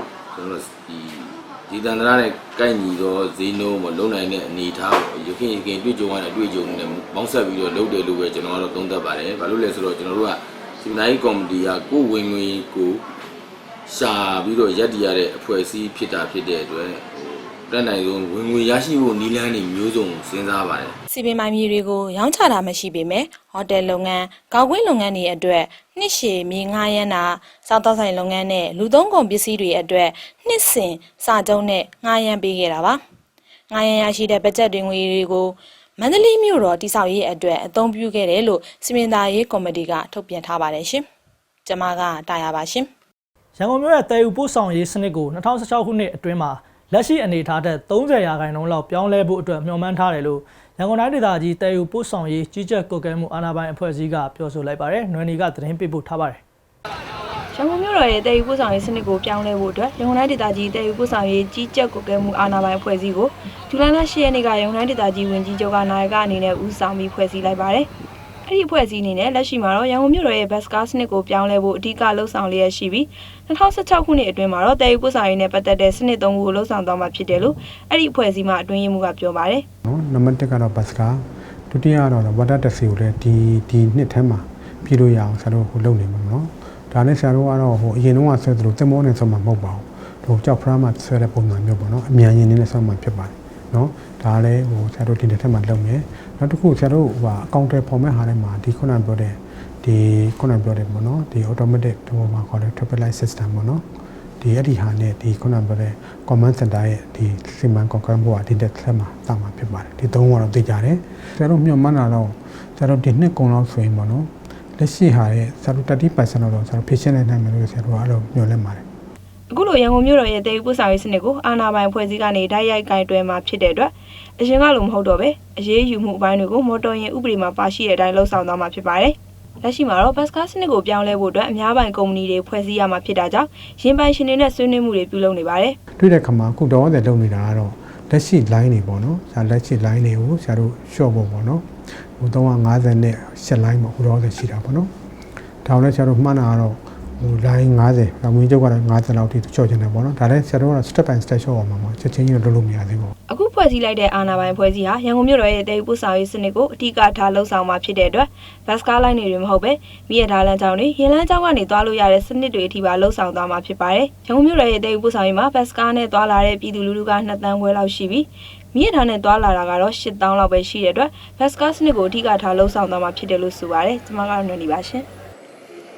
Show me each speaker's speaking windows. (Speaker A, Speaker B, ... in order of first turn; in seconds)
Speaker A: 0.3-13.0, 13.9-20.9
Speaker B: 21.1-33.0, 33.7-41.0, 41.7-42.9
Speaker C: 43.5-56.4
Speaker D: 57.5-67.9, 68.4-79.6, 119.5-135.8, 153.3-175.1
Speaker E: 79.8-103.8, 104.4-118.8, 136.0-141.6, 142.2-144.9, 145.6-153.1